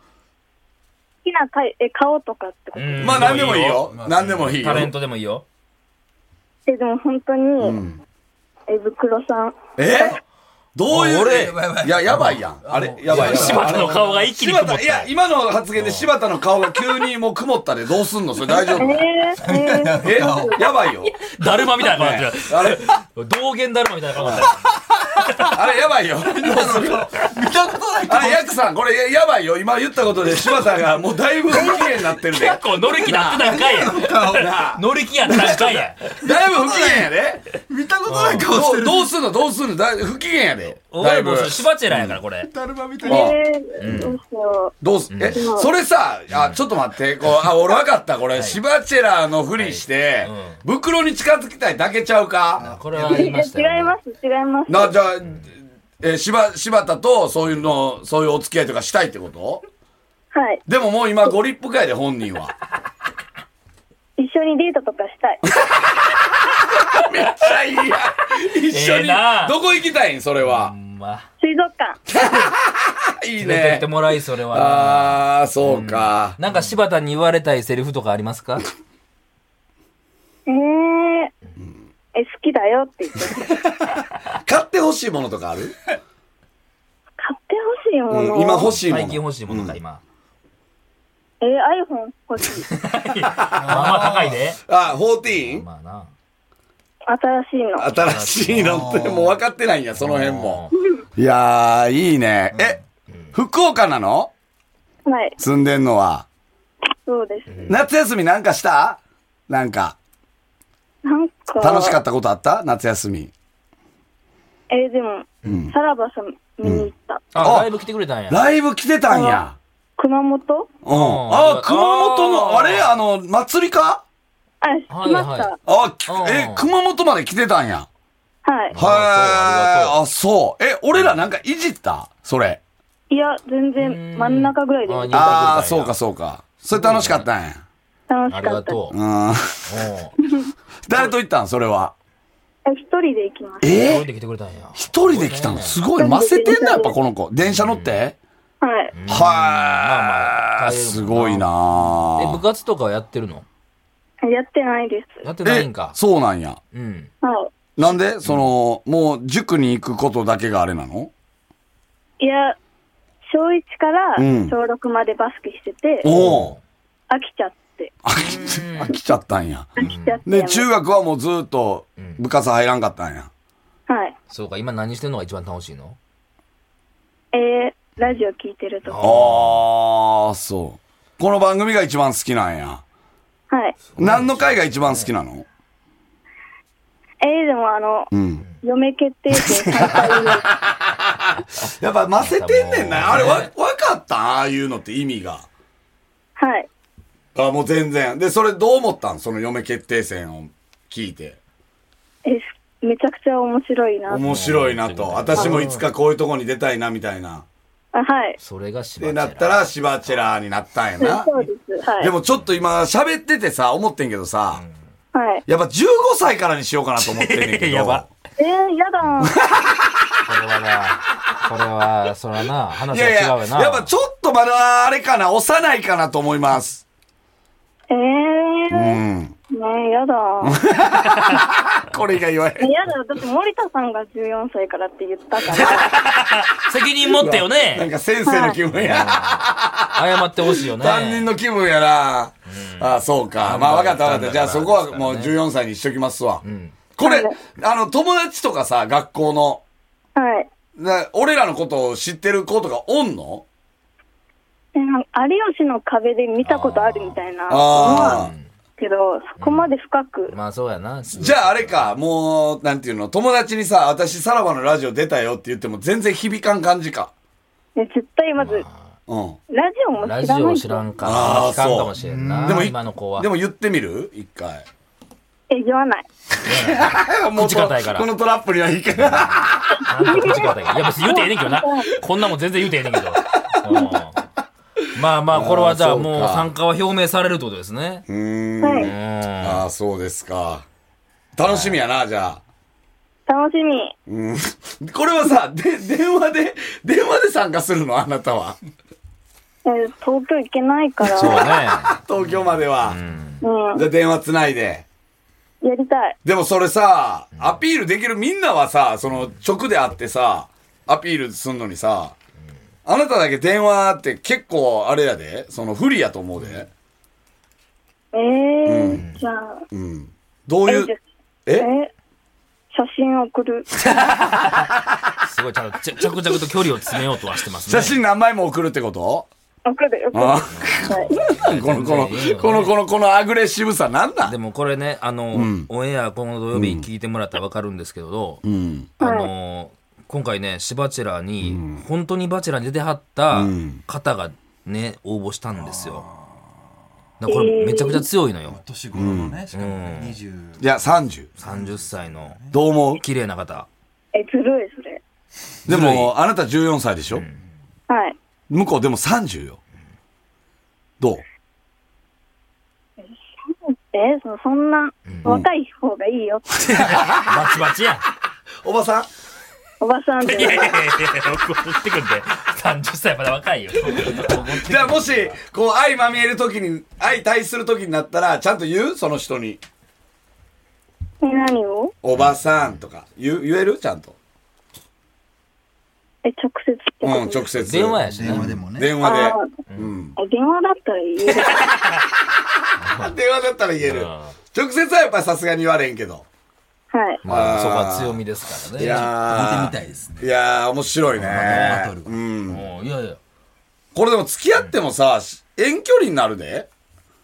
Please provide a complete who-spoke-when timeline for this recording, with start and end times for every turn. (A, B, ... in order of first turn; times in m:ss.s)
0:01.2-0:03.2 A
0:02.7-0:03.9 B
0:03.0-0:04.9 C
0:03.1-0:04.8 D
0:04.5-0:05.4 B
0:06.6-0:07.8 A
0:07.6-0:08.0 C
0:08.7-0:10.2 A
0:09.8-0:10.2 C
0:10.7-0:19.0 C
0:10.9-0:11.6 B
0:11.4-0:14.3 D
0:13.1-0:15.1 B
0:15.8-0:16.1 B
0:18.8-0:20.7 A
0:19.4-0:20.5 D
0:20.0-0:21.1 C
0:21.0-0:25.6 B
0:21.8-0:22.8 C
0:24.2-0:24.5 C
0:25.5-0:27.1 C
0:26.3-0:28.7 D
0:28.1-0:37.4 C
0:31.5-0:31.9 A
0:32.3-0:36.1 B
0:33.5-0:34.5 D
0:36.2-0:37.1 D
0:37.7-0:39.1 D
0:38.0-0:38.6 B
0:38.5-0:42.2 C
0:40.9-0:42.5 B
0:42.4-0:43.3 D
0:43.0-0:44.7 A
0:43.0-0:44.1 C
0:43.8-0:44.1 B
0:44.8-0:52.6 C
0:45.1-0:45.4 B
0:45.3-0:45.7 A
0:46.3-0:46.6 B
0:48.3-0:48.6 B
0:49.6-0:50.6 B
0:52.6-0:53.2 D
0:52.6-0:54.0 B
0:53.0-0:55.0 A
0:54.7-0:59.6 C
0:55.2-0:55.5 B
1:00.3-1:00.6 A
1:00.7-1:02.5 C
1:04.2-1:05.4 A
1:06.9-1:10.7 C
1:08.5-1:09.5 B
1:10.4-1:11.2 B
1:11.4-1:12.0 A
1:12.1-1:13.9 C
1:13.4-1:18.6 B
1:14.5-1:16.4 C
1:20.5-1:21.3 A
1:22.1-1:23.5 A
1:24.4-1:25.7 C
1:27.2-1:28.8 A
1:28.1-1:29.8 C
1:28.6-1:30.0 B
1:31.4-1:32.7 A
1:32.7-1:34.6 B
1:33.5-1:35.6 C
1:33.5-1:34.4 D
1:35.2-1:36.1 B
1:37.1-1:38.0 A
1:37.8-1:40.6 C
1:38.0-1:38.9 B
1:38.7-1:39.3 D
1:40.0-1:40.8 B
1:41.2-1:42.8 C
1:42.5-1:43.3 B
1:43.3-1:44.3 C
1:45.0-1:45.4 A
1:45.4-1:46.2 C
1:47.0-1:47.7 A
1:47.5-1:47.8 B
1:47.7-1:49.0 C
1:49.5-1:50.0 C
1:51.0-1:52.0 A
1:51.6-1:53.3 C
1:54.7-1:57.4 A
1:55.4-1:55.7 C
1:56.6-1:56.9 C
1:57.3-1:58.5 B
1:57.4-1:57.7 C
1:58.3-1:59.6 C
1:59.1-1:59.4 A
2:00.0-2:00.7 A
2:00.8-2:04.0 C
2:00.9-2:02.9 B
2:04.6-2:05.6 A
2:04.9-2:05.5 B
2:05.6-2:07.9 C
2:06.1-2:06.7 B
2:08.4-2:08.8 A
2:08.7-2:10.0 B
2:08.7-2:12.6 C
2:10.9-2:11.2 B
2:13.1-2:15.5 A
2:13.8-2:16.0 B
2:15.1-2:17.6 C
2:16.7-2:17.3 B
2:18.1-2:18.8 A
2:18.3-2:19.0 B
2:18.9-2:19.8 C
2:19.7-2:20.2 B
2:20.2-2:21.1 A
2:20.8-2:21.9 C
2:22.6-2:23.9 A
2:23.6-2:24.1 C
2:23.8-2:25.8 B
2:24.8-2:28.1 C
2:25.9-2:26.9 A
2:27.4-2:28.0 B
2:28.6-2:28.9 A
2:28.9-2:33.4 B
2:29.1-2:32.4 C
2:34.2-2:35.2 A
2:35.2-2:36.0 B
2:35.4-2:36.6 C
2:36.7-2:37.1 B
2:37.2-2:37.5 A
2:37.8-2:41.1 C
2:38.2-2:38.5 B
2:42.2-2:42.6 A
2:43.3-2:46.1 A
2:44.2-2:44.5 C
2:46.0-2:46.5 C
2:46.0-2:46.6 B
2:47.1-2:47.9 A
2:48.0-2:49.7 C
2:48.2-2:48.9 B
2:49.8-2:50.7 A
2:49.8-2:50.2 B
2:50.2-2:53.3 C
2:52.0-2:52.2 B
2:53.9-2:54.1 A
2:54.3-2:56.0 B
2:57.3-2:59.1 A
2:58.8-2:59.6 B
2:59.0-3:02.8 C
3:03.5-3:03.8 A
3:03.9-3:05.1 B
3:04.0-3:05.4 C
3:07.2-3:08.1 A
3:08.1-3:08.4 C
3:08.6-3:10.5 A
3:09.4-3:11.0 C
3:11.4-3:13.5 B
3:11.6-3:15.4 C
3:16.4-3:16.7 A
3:17.3-3:21.4 C
3:22.2-3:24.3 A
3:24.1-3:27.4 C
3:24.2-3:25.8 B
3:27.9-3:28.4 A
3:28.4-3:29.7 B
3:29.0-3:31.3 C
3:31.0-3:32.1 A
3:32.0-3:34.6 C
3:35.1-3:35.4 A
3:35.5-3:38.1 C
3:37.0-3:38.0 B
3:38.4-3:39.4 A
3:39.0-3:39.3 B
3:39.2-3:39.9 C
3:40.2-3:43.9 B
3:42.9-3:46.8 C
3:47.9-3:49.0 A
3:48.7-3:49.3 C
3:49.5-3:50.6 A
3:50.4-3:52.7 C
3:51.0-3:51.4 B
3:52.6-3:55.9 A
3:55.5-3:57.9 B
3:57.1-4:00.1 C
3:58.2-3:58.6 A
3:58.7-4:01.3 B
4:00.7-4:06.4 C
4:02.5-4:05.3 B
4:06.4-4:06.8 B
4:07.0-4:09.6 C
4:07.0-4:07.3 A
4:10.2-4:10.5 A
4:10.8-4:13.4 C
4:14.7-4:18.2 A
4:16.4-4:17.2 B
4:17.5-4:18.3 C
4:17.9-4:18.5 B
4:18.8-4:20.3 A
4:19.4-4:19.7 B
4:20.3-4:21.9 B
4:21.1-4:27.1 C
4:27.8-4:28.6 A
4:28.4-4:28.8 B
4:29.1-4:29.4 C
4:29.5-4:30.9 A
4:30.0-4:33.3 B
4:31.0-4:34.6 C
4:32.0-4:32.7 D
4:35.5-4:36.0 A
4:36.4-4:38.1 B
4:36.5-4:39.8 C
4:39.0-4:39.3 B
4:39.8-4:41.9 A
4:39.9-4:44.3 B
4:44.9-4:48.0 B
4:45.3-4:46.5 C
4:48.1-4:50.6 C
4:48.6-4:48.9 A
4:48.7-4:49.6 B
4:51.4-4:52.4 C
4:51.4-4:51.8 B
4:53.3-4:53.9 A
4:54.1-4:58.6 C
4:59.6-5:01.5 A
5:01.0-5:01.9 B
5:01.2-5:03.0 C
5:02.8-5:03.4 B
5:03.4-5:03.9 A
5:03.7-5:04.8 C
5:05.6-5:06.2 A
5:06.2-5:12.1 C
5:07.3-5:07.6 B
5:12.8-5:16.7 C
5:18.1-5:19.6 A
5:18.6-5:19.0 C
5:18.9-5:19.2 B
5:19.7-5:20.9 C
5:20.7-5:21.0 A
5:21.5-5:21.9 A
5:22.7-5:23.7 A
5:24.0-5:24.6 B
5:25.2-5:28.0 B
5:27.6-5:29.3 C
5:29.6-5:31.2 A
5:30.1-5:34.3 C
5:30.5-5:32.8 B
5:34.2-5:38.4 B
5:35.3-5:35.7 C
5:36.5-5:36.8 C
5:38.4-5:38.9 C
5:39.0-5:46.0 B
5:39.0-5:39.3 A
5:41.4-5:41.8 C
5:43.3-5:43.8 C
5:47.2-5:48.6 B
5:47.3-5:48.0 A
5:48.4-5:50.8 D
5:48.9-5:49.4 C
5:49.5-5:50.2 B
5:50.6-5:51.3 C
5:51.4-5:52.4 B
5:51.4-5:52.5 D
5:52.5-5:53.0 C
5:52.9-5:53.7 B
5:54.1-5:55.0 A
5:55.7-5:56.1 B
5:55.7-5:57.2 C
5:57.9-5:58.2 A
5:58.5-5:59.6 C
6:03.0-6:06.4 A
6:05.1-6:05.3 B
6:06.5-6:08.0 B
6:08.6-6:09.1 C
6:09.8-6:10.8 A
6:10.2-6:15.4 B
6:14.0-6:19.6 C
6:21.2-6:21.9 A
6:22.0-6:24.2 C
6:22.1-6:22.8 B
6:26.2-6:27.6 A
6:27.0-6:30.1 C
6:27.6-6:28.5 B
6:28.0-6:29.0 D
6:29.0-6:29.5 A
6:30.2-6:31.6 A
6:31.2-6:32.0 B
6:32.8-6:33.2 B
6:32.9-6:36.2 C
6:33.8-6:34.3 B
6:36.9-6:37.3 A
6:37.2-6:39.1 B
6:37.2-6:38.2 C
6:38.7-6:42.6 C
6:38.8-6:40.3 D
6:41.2-6:41.7 B
6:41.2-6:42.2 D
6:42.5-6:43.2 B
6:43.9-6:46.7 C